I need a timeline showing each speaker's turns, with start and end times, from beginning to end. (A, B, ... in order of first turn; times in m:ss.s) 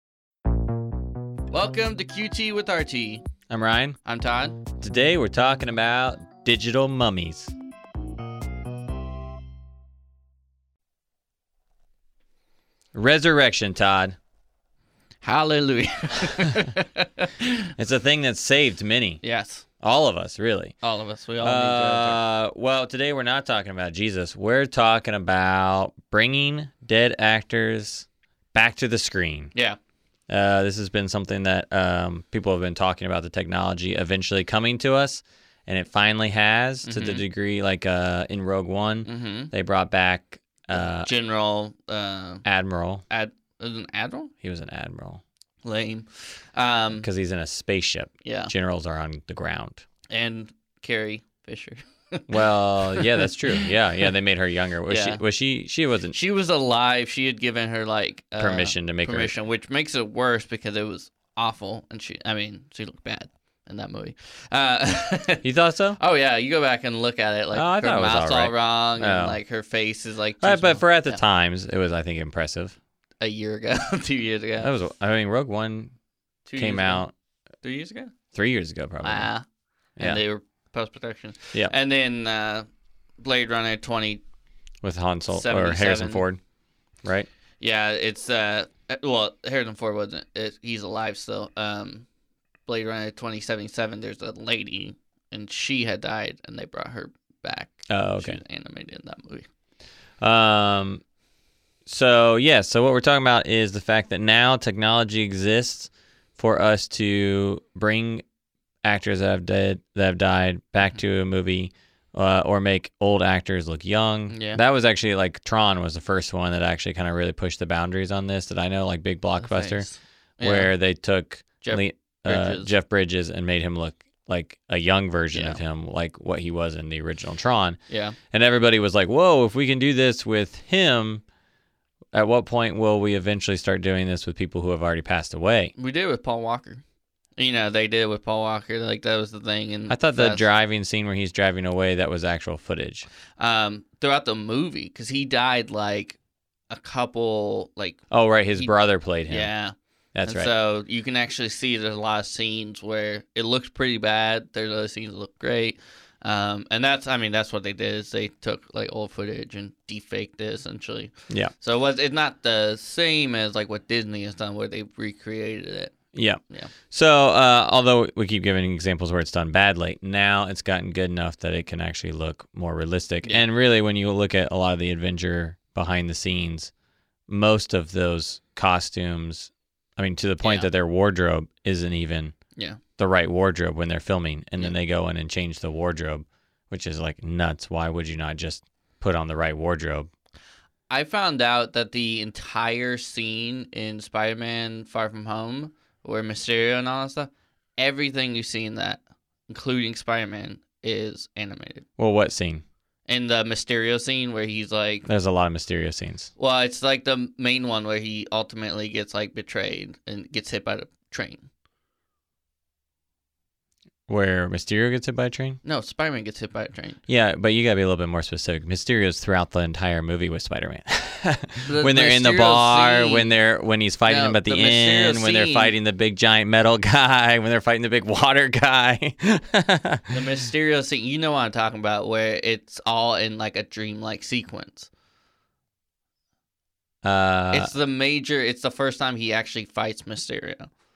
0:01.5-0:03.2 A
0:03.5-0:04.0 B
0:04.0-0:04.6 A
0:04.8-0:07.5 B
0:12.9-0:14.2 B
0:15.2-0:17.7 A
0:17.8-0:19.2 B
0:19.2-0:19.6 A
0:19.8-0:20.7 B
0:20.8-0:22.2 A
0:21.4-0:29.5 B
0:30.3-0:41.1 B
0:36.8-0:37.2 A
0:39.0-0:39.5 A
0:40.9-0:42.4 A
0:42.4-0:43.0 B
0:43.1-0:44.3 A
0:44.4-0:45.2 B
0:45.6-0:47.0 A
0:47.0-0:49.8 B
0:48.2-0:48.5 A
0:50.1-0:53.7 A
0:52.3-0:56.1 B
0:54.9-0:55.2 A
0:56.1-1:05.4 A
0:58.4-0:59.3 B
1:05.4-1:06.0 B
1:06.0-1:11.2 A
1:07.5-1:09.4 B
1:10.4-1:12.8 B
1:13.2-1:14.7 A
1:14.6-1:15.9 B
1:16.4-1:17.0 A
1:16.6-1:17.1 B
1:17.6-1:18.1 A
1:18.3-1:19.3 B
1:19.0-1:19.4 A
1:20.0-1:22.6 A
1:23.2-1:24.2 A
1:24.8-1:26.4 B
1:25.3-1:26.2 A
1:27.6-1:32.0 A
1:32.7-1:39.5 A
1:37.9-1:38.4 B
1:40.2-1:41.0 B
1:41.8-1:48.2 B
1:48.8-1:59.9 B
1:54.3-1:54.6 A
1:59.4-2:00.7 A
2:00.4-2:07.8 B
2:01.6-2:02.7 A
2:05.3-2:05.6 A
2:07.9-2:08.2 A
2:08.3-2:11.2 B
2:12.1-2:15.7 B
2:15.8-2:16.8 A
2:17.4-2:20.4 A
2:19.9-2:23.1 B
2:23.4-2:26.2 A
2:26.7-2:28.0 A
2:28.1-2:29.5 B
2:29.3-2:29.7 A
2:30.1-2:30.5 B
2:30.2-2:45.9 A
2:46.1-2:46.4 B
2:46.9-2:56.7 B
2:57.3-3:02.3 B
3:03.0-3:10.1 B
3:10.9-3:21.8 A
3:22.0-3:22.6 B
3:23.1-3:25.1 A
3:25.1-3:26.3 B
3:26.4-3:31.5 A
3:34.1-3:35.6 B
3:35.6-3:37.0 A
3:37.1-3:50.2 B
3:41.6-3:43.3 A
3:44.1-3:45.7 A
3:50.1-3:54.9 A
3:57.0-3:57.7 B
3:57.5-4:00.7 A